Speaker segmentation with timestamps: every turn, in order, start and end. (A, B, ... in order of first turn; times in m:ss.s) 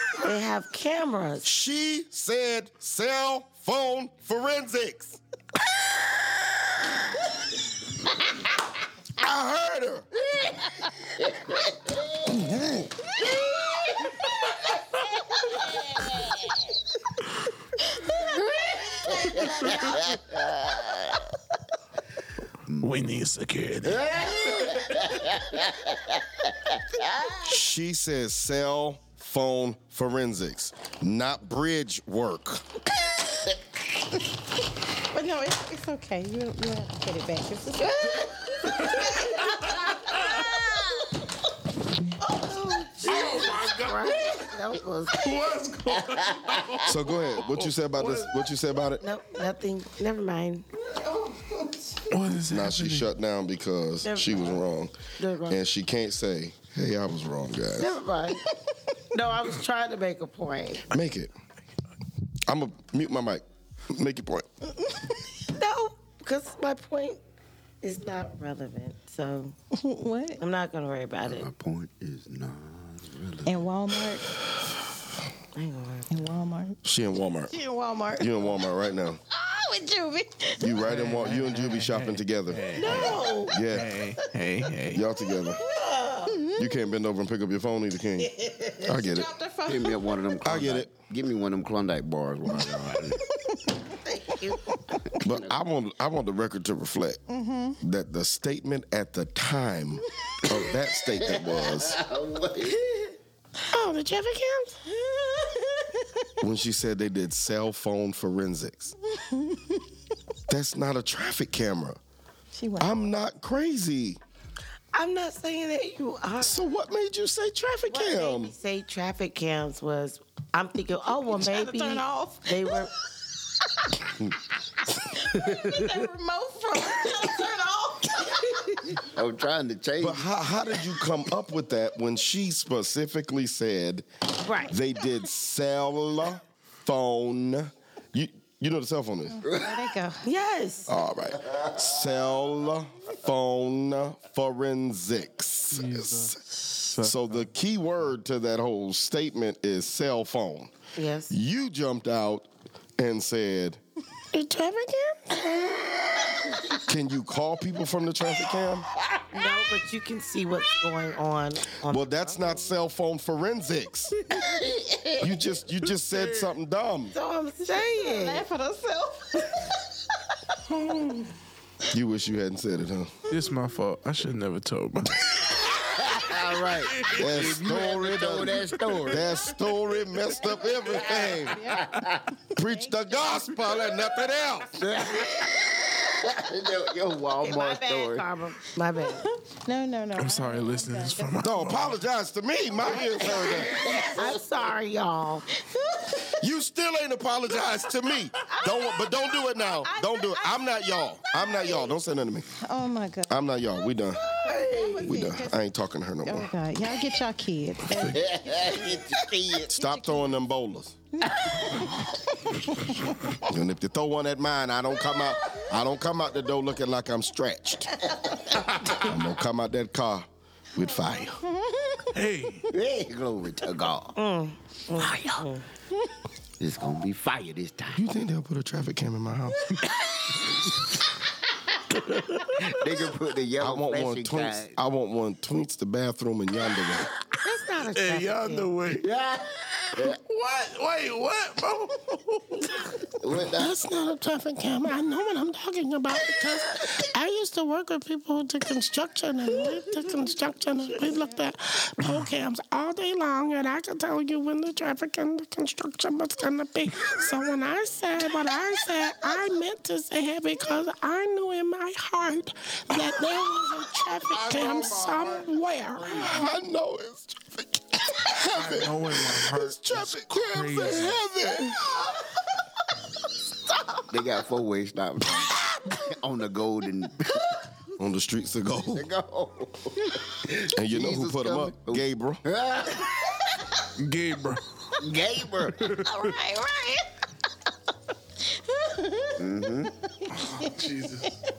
0:00.1-0:01.5 A
0:01.4-0:05.2 B
0:09.2-0:10.1 B
0:11.5-0:12.0 C
0:12.3-0:12.8 D
0:13.3-0:13.9 C
0:16.0-0:16.5 C
0:19.1-0:21.2 C
0:22.7-0:22.9 C
0:22.8-0:25.1 E
0:23.9-0:26.1 C
0:26.7-0:27.4 C
0:27.4-0:32.8 B
0:35.0-0:38.2 D
0:42.2-0:45.5 A
0:43.0-0:44.5 E
0:45.1-0:48.3 E
0:46.8-0:49.0 B
0:49.0-0:50.6 A
0:52.1-0:53.1 E
0:52.3-0:58.0 B
0:54.0-0:54.6 A
0:55.2-0:55.6 A
0:57.8-0:58.5 A
0:59.1-1:00.9 A
1:00.9-1:01.3 B
1:02.4-1:04.5 B
1:05.4-1:07.2 A
1:07.8-1:09.6 A
1:09.7-1:10.4 D
1:10.4-1:11.5 A
1:11.2-1:13.5 C
1:13.4-1:14.3 D
1:15.5-1:16.1 A
1:16.1-1:16.8 D
1:16.8-1:17.5 B
1:17.5-1:18.5 D
1:18.1-1:19.2 B
1:19.3-1:20.8 D
1:20.6-1:23.9 B
1:20.8-1:25.0 E
1:22.8-1:23.6 A
1:24.9-1:25.6 B
1:25.6-1:26.4 A
1:26.3-1:26.7 D
1:26.6-1:29.3 B
1:28.3-1:28.8 A
1:28.8-1:30.2 D
1:29.6-1:33.2 C
1:30.4-1:30.9 B
1:32.7-1:34.0 D
1:34.0-1:34.8 A
1:35.1-1:35.5 C
1:35.2-1:37.2 B
1:37.3-1:37.8 D
1:37.8-1:42.0 B
1:41.2-1:42.8 C
1:43.6-1:44.8 F
1:45.1-1:46.2 D
1:46.4-1:48.9 B
1:49.1-1:49.8 D
1:50.5-1:52.0 B
1:52.5-1:52.9 D
1:52.8-1:54.2 B
1:54.9-1:56.7 A
1:56.4-1:58.5 B
1:57.9-2:02.9 A
2:01.3-2:02.9 D
2:05.0-2:09.0 D
2:09.0-2:10.2 C
2:10.0-2:14.0 B
2:14.4-2:14.7 A
2:14.6-2:19.4 B
2:19.4-2:20.3 D
2:19.4-2:19.7 C
2:20.2-2:20.9 A
2:20.9-2:30.7 B
2:25.7-2:27.5 E
2:31.0-2:31.3 A
2:31.3-2:33.8 B
2:34.3-2:35.6 F
2:36.8-2:38.9 B
2:39.3-2:42.6 A
2:41.9-2:44.2 B
2:44.4-2:45.2 C
2:45.2-2:47.1 B
2:46.0-2:46.5 E
2:47.1-2:48.4 A
2:47.6-2:49.9 D
2:51.9-2:53.2 B
2:53.3-2:58.0 E
2:55.8-2:59.2 C
2:57.1-3:01.8 B
2:58.6-2:59.2 E
3:00.3-3:03.5 D
3:01.1-3:02.2 C
3:02.5-3:04.9 B
3:04.8-3:08.3 C
3:07.4-3:09.2 A
3:09.0-3:11.4 D
3:10.2-3:12.0 E
3:11.4-3:13.9 B
3:12.9-3:14.1 D
3:13.5-3:15.5 A
3:13.7-3:14.4 C
3:15.5-3:16.3 D
3:16.3-3:22.5 B
3:18.4-3:21.9 D
3:22.5-3:23.4 D
3:23.3-3:24.2 B
3:24.4-3:25.6 D
3:24.5-3:25.0 C
3:25.0-3:26.5 B
3:26.2-3:30.4 D
3:28.1-3:29.7 C
3:29.7-3:31.0 B
3:31.1-3:33.4 D
3:33.4-3:38.0 B
3:39.0-3:41.4 B
3:41.5-3:42.1 D
3:42.1-3:42.7 E
3:42.7-3:44.2 C
3:44.2-3:45.7 A
3:45.0-3:45.4 C
3:46.6-3:48.0 C
3:47.9-3:49.7 B
3:50.1-3:50.8 C
3:52.4-3:54.7 C
3:53.6-3:57.1 B
3:57.4-3:58.7 A
3:57.8-3:59.0 E
3:59.0-4:00.2 C
4:00.0-4:02.8 E
4:03.2-4:03.7 C
4:03.5-4:26.3 F
4:24.3-4:25.4 E
4:26.2-4:32.0 B
4:28.4-4:31.2 E
4:34.1-4:37.6 C
4:38.0-4:39.1 B
4:38.9-4:43.2 C
4:40.6-4:42.4 B
4:44.0-4:44.6 E
4:45.0-4:45.9 C
4:45.8-4:46.3 E
4:45.9-4:47.1 D
4:48.6-4:50.7 D
4:49.4-4:49.9 C
4:50.3-4:51.4 E